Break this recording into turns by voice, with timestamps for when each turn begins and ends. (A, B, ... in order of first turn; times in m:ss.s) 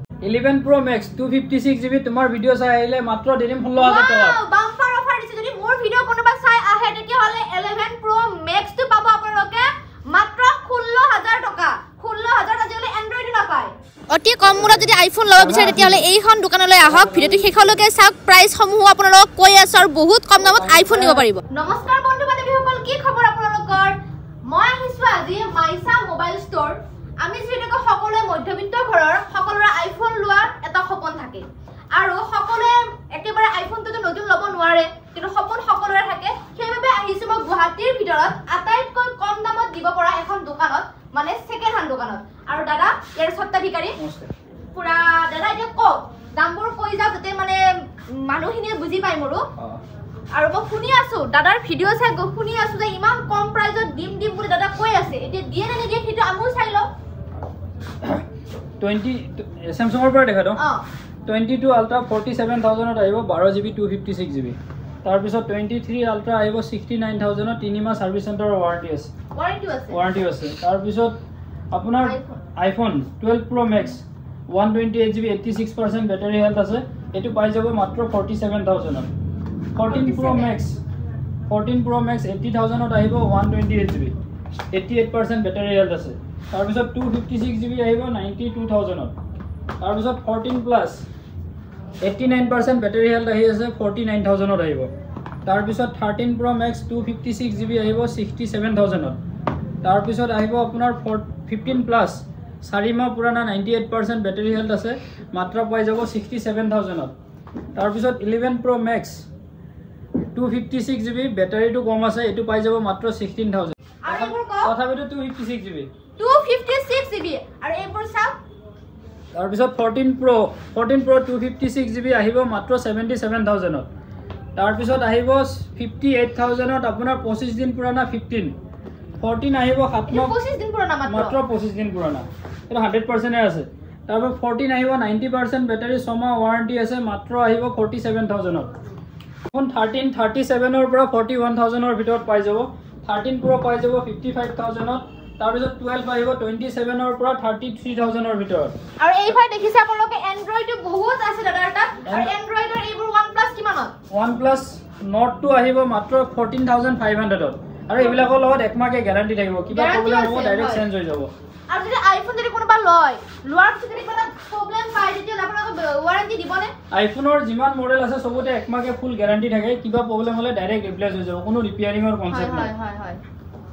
0:00.2-0:04.4 A
0:03.8-0:23.9 B
0:15.4-0:16.0 A
0:16.8-0:17.6 A
0:20.4-0:21.3 A
0:24.5-0:44.0 B
0:44.0-0:44.3 A
0:44.7-0:49.4 B
0:50.3-0:56.9 B
0:58.8-1:00.6 A
1:00.6-1:00.8 B
1:01.2-1:09.1 A
1:09.3-1:10.0 B
1:09.9-1:11.1 A
1:11.7-1:19.1 A
1:12.0-1:12.4 B
1:19.7-1:20.8 A
1:19.8-1:20.5 B
1:21.5-1:24.1 A
1:24.7-1:29.1 A
1:29.8-1:31.0 A
1:32.0-1:34.9 A
1:35.4-1:39.2 A
1:39.8-1:47.1 A
1:47.7-1:49.2 A
1:50.3-1:55.9 A
1:54.0-1:54.7 B
1:56.2-1:58.4 B
1:59.3-2:03.9 A
2:04.6-2:08.5 A
2:09.2-2:10.4 A
2:10.1-2:11.3 B
2:11.1-2:18.7 A
2:19.5-2:28.7 A
2:29.0-2:33.9 B
2:32.0-2:32.3 A
2:34.1-2:41.3 A
2:39.7-2:40.8 B
2:41.7-2:46.7 B
2:46.9-2:52.7 A
2:52.3-2:53.2 B